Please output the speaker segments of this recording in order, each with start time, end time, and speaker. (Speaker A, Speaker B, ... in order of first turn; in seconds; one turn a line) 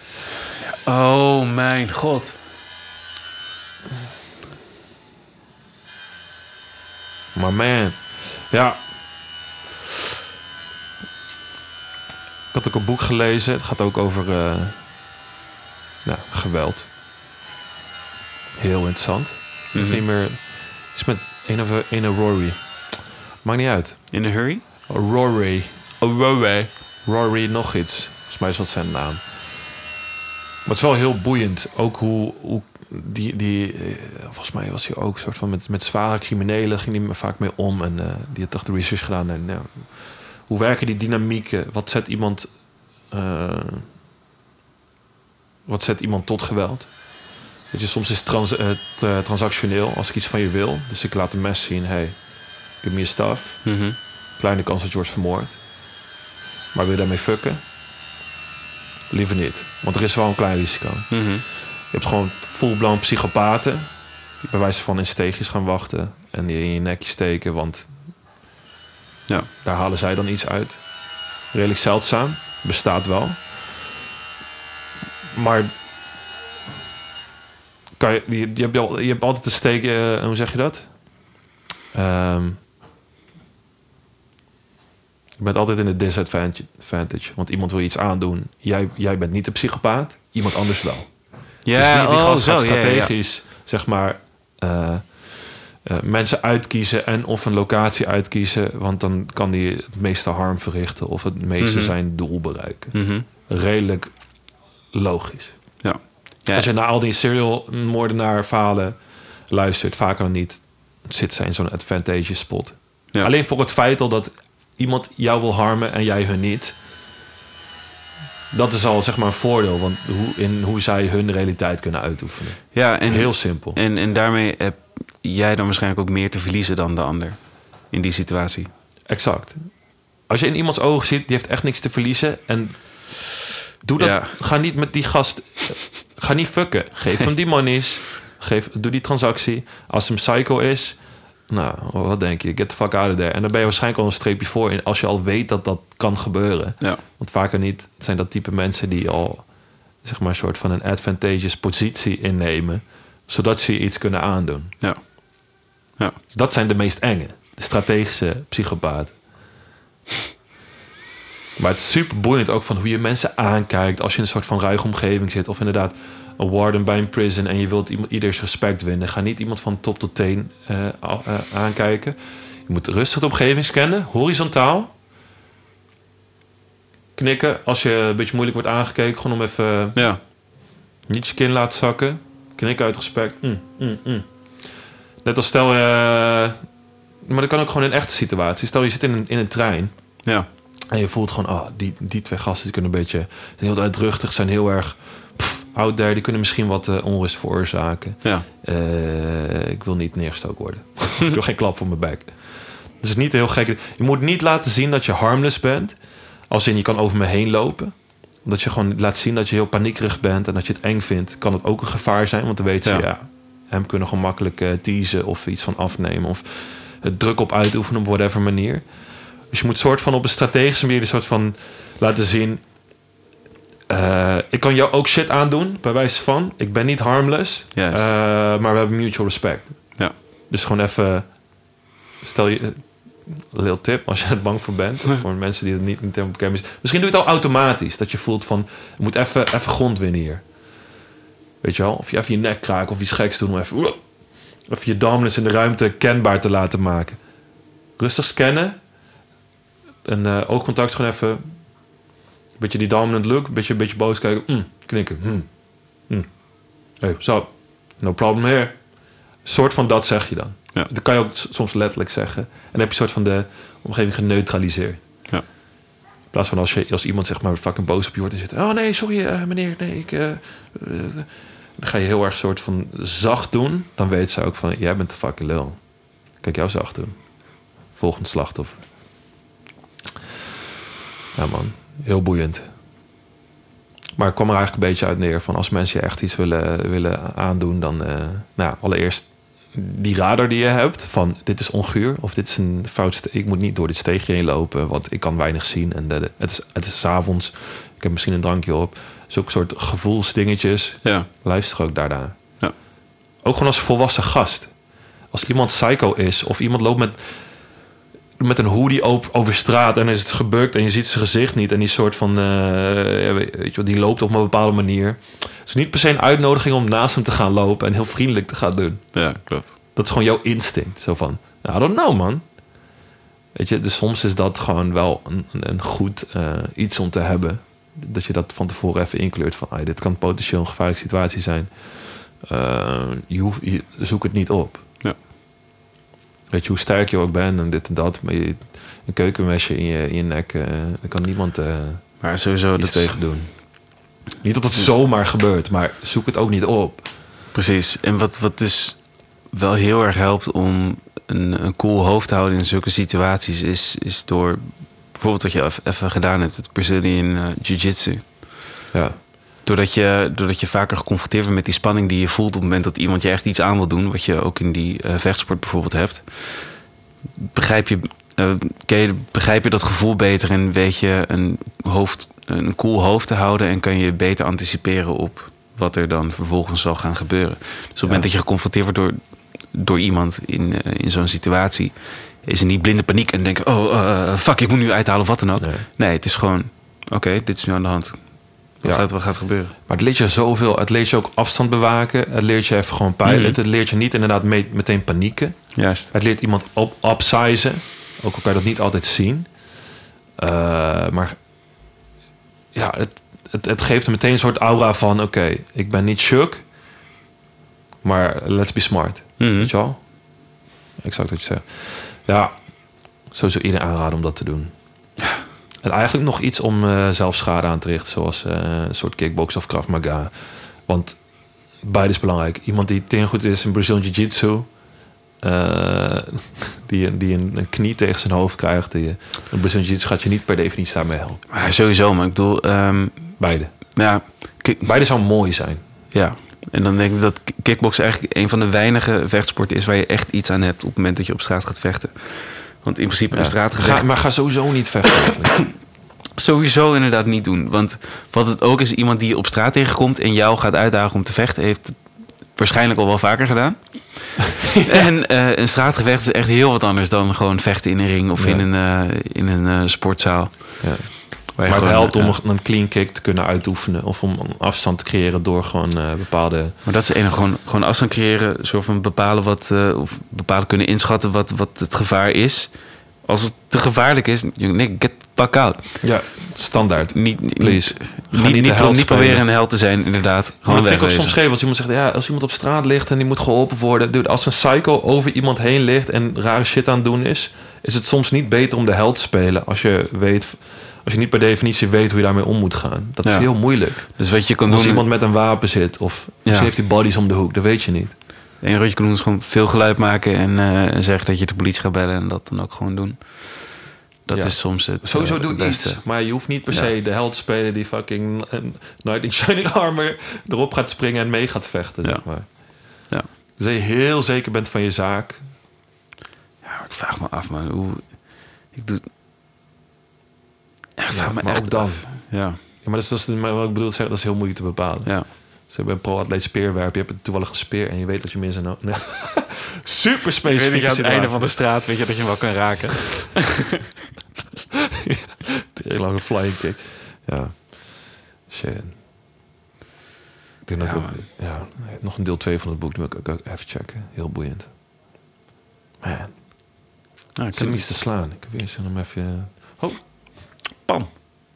Speaker A: 0.6-2.4
Speaker B: 7.3-8.8
Speaker B: 12.5-14.8
Speaker B: 16.1-16.9
Speaker B: 18.6-24.2
Speaker A: 19.7-20.0
Speaker A: 24.1-24.6
Speaker B: 24.9-29.2
Speaker B: 30.6-42.5
Speaker B: 43.1-43.9
Speaker B: 45.7-46.9
Speaker B: 47.7-52.2
Speaker B: 52.8-53.7
Speaker A: 53.6-54.0
Speaker B: 54.4-55.6
Speaker B: 56.7-57.6
Speaker B: 59.1-63.9
Speaker A: 61.1-61.5
Speaker B: 64.4-67.9
Speaker B: 69.6-70.8
Speaker B: 71.5-73.6
Speaker B: 75.3-75.7
Speaker B: 78.0-80.9
Speaker B: 81.9-82.6
Speaker B: 85.4-91.2
Speaker A: 91.7-93.1
Speaker B: 91.7-103.0
Speaker A: 101.6-101.9
Speaker A: 102.9-103.3
Speaker B: 103.5-104.1
Speaker B: 104.9-105.6
Speaker A: 105.8-106.7
Speaker B: 106.5-109.0
Speaker B: 109.5-116.8
Speaker B: 118.5-123.8
Speaker A: 122.7-128.7
Speaker B: 129.1-129.6
Speaker B: 130.3-133.1
Speaker B: 133.8-141.0
Speaker A: 134.0-134.4
Speaker B: 141.5-149.5
Speaker B: 150.0-154.8
Speaker B: 156.3-159.2
Speaker B: 161.6-174.9
Speaker B: 177.2-180.0
Speaker B: 181.1-184.3
Speaker B: 185.2-186.6
Speaker B: 187.3-189.9
Speaker B: 190.9-206.0
Speaker B: 206.5-218.9
Speaker B: 219.4-222.6
Speaker B: 223.9-231.3
Speaker A: 227.8-228.1
Speaker B: 232.2-240.4
Speaker B: 241.6-244.0
Speaker B: 244.7-247.2
Speaker B: 248.0-248.8
Speaker B: 250.1-251.4
Speaker B: 252.6-255.5
Speaker B: 257.0-258.8
Speaker B: 259.4-265.0
Speaker B: 266.3-275.8
Speaker B: 276.4-277.2
Speaker B: 277.9-278.9
Speaker B: 281.4-282.6
Speaker B: 284.2-302.4
Speaker A: 301.0-301.3
Speaker B: 303.4-304.7
Speaker B: 305.3-307.4
Speaker B: 308.4-319.3
Speaker A: 319.1-319.8
Speaker B: 319.9-322.4
Speaker B: 323.6-334.8
Speaker B: 336.5-342.2
Speaker A: 342.2-343.3
Speaker B: 342.8-343.8
Speaker B: 344.4-347.1
Speaker A: 347.5-358.6
Speaker B: 358.9-359.2
Speaker A: 359.6-366.8
Speaker A: 367.4-389.7
Speaker B: 378.0-378.3
Speaker B: 385.6-385.9
Speaker B: 388.8-389.1
Speaker B: 389.9-399.5
Speaker A: 393.2-393.6
Speaker A: 395.8-396.1
Speaker B: 400.4-401.4
Speaker B: 402.7-406.6
Speaker B: 408.0-410.0
Speaker A: 409.4-409.7
Speaker B: 411.0-412.5
Speaker B: 413.3-414.7
Speaker B: 415.8-421.2
Speaker B: 421.8-424.7
Speaker B: 425.4-431.4
Speaker A: 431.5-433.4
Speaker B: 433.4-433.9
Speaker A: 433.9-434.9
Speaker B: 434.8-435.8
Speaker A: 436.1-444.2
Speaker B: 443.3-445.6
Speaker A: 446.4-462.4
Speaker B: 454.6-455.1
Speaker B: 458.4-458.6
Speaker B: 460.8-466.8
Speaker A: 466.9-472.7
Speaker A: 473.2-476.0
Speaker B: 476.0-479.4
Speaker A: 477.1-481.4
Speaker B: 480.7-498.1
Speaker A: 493.2-495.1
Speaker A: 496.5-496.7
Speaker A: 498.6-506.9
Speaker B: 504.3-512.6
Speaker A: 512.0-512.6
Speaker B: 513.6-515.5
Speaker A: 516.6-519.0
Speaker A: 521.0-522.6
Speaker B: 521.1-531.6
Speaker A: 530.5-533.4
Speaker B: 535.0-539.0
Speaker B: 540.7-544.7
Speaker A: 540.8-541.2
Speaker B: 546.0-546.5
Speaker A: 547.4-547.8
Speaker B: 547.5-550.1
Speaker A: 550.8-551.1